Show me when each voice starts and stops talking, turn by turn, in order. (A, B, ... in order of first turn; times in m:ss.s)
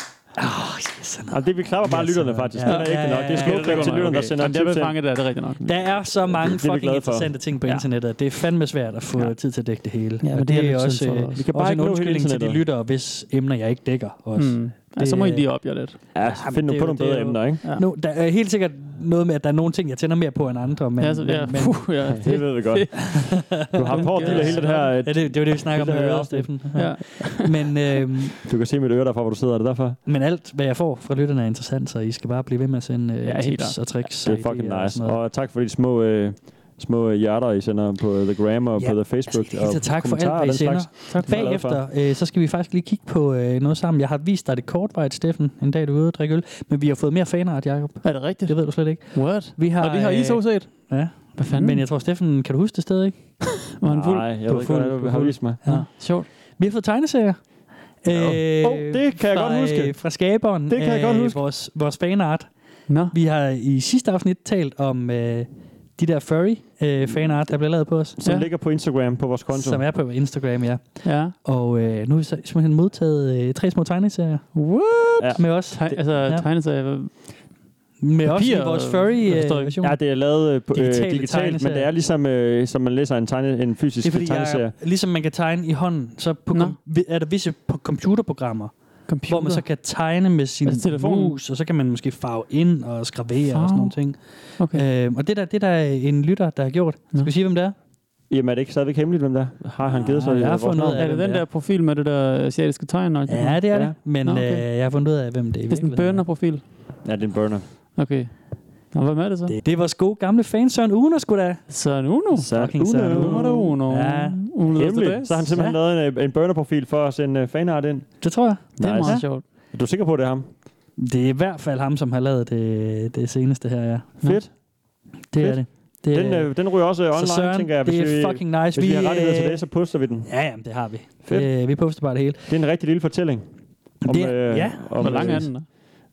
0:00.4-0:04.2 A
0:01.3-0:04.9 B
0:02.6-0:05.6 C
0:05.6-0:22.5 A
0:05.6-0:07.4 B
0:10.2-0:11.4 C
0:11.4-0:12.6 B
0:14.4-0:16.1 C
0:16.1-0:17.6 B
0:21.0-0:24.9 C
0:22.0-0:26.5 B
0:23.1-0:28.4 A
0:26.7-0:27.6 C
0:28.4-0:30.0 B
0:30.0-0:35.2 A
0:33.2-0:34.1 C
0:34.2-0:41.8 B
0:38.8-0:53.5 A
0:41.1-0:41.5 C
0:48.0-0:51.8 C
0:53.7-0:56.3 C
0:53.9-0:55.6 B
0:55.6-1:08.2 A
0:58.1-1:00.0 B
1:00.7-1:01.4 B
1:02.9-1:03.1 C
1:08.2-1:09.8 B
1:08.2-1:08.5 C
1:09.5-1:14.7 A
1:11.0-1:11.3 C
1:14.5-1:17.5 C
1:15.2-1:16.0 B
1:15.4-1:16.5 A
1:18.0-1:21.9 A
1:18.2-1:19.8 C
1:19.8-1:24.7 B
1:24.0-1:37.7 A
1:29.1-1:29.8 C
1:30.6-1:31.4 C
1:33.5-1:34.8 C
1:38.3-1:41.0 B
1:39.8-1:41.4 A
1:40.9-1:44.6 C
1:43.3-1:46.2 A
1:45.7-1:46.7 C
1:47.0-1:47.7 B
1:47.9-1:49.6 C
1:49.5-1:51.7 A
1:51.7-1:55.5 C
1:52.3-1:53.5 B
1:52.5-1:54.5 A
1:54.7-2:00.5 B
1:55.5-1:55.8 A
1:58.2-1:59.3 A
1:58.8-1:59.4 C
2:01.0-2:04.6 A
2:04.2-2:04.5 B
2:05.3-2:12.5 A
2:05.4-2:10.3 B
2:11.2-2:11.5 B
2:12.5-2:15.8 B
2:14.0-2:15.7 A
2:15.0-2:15.7 C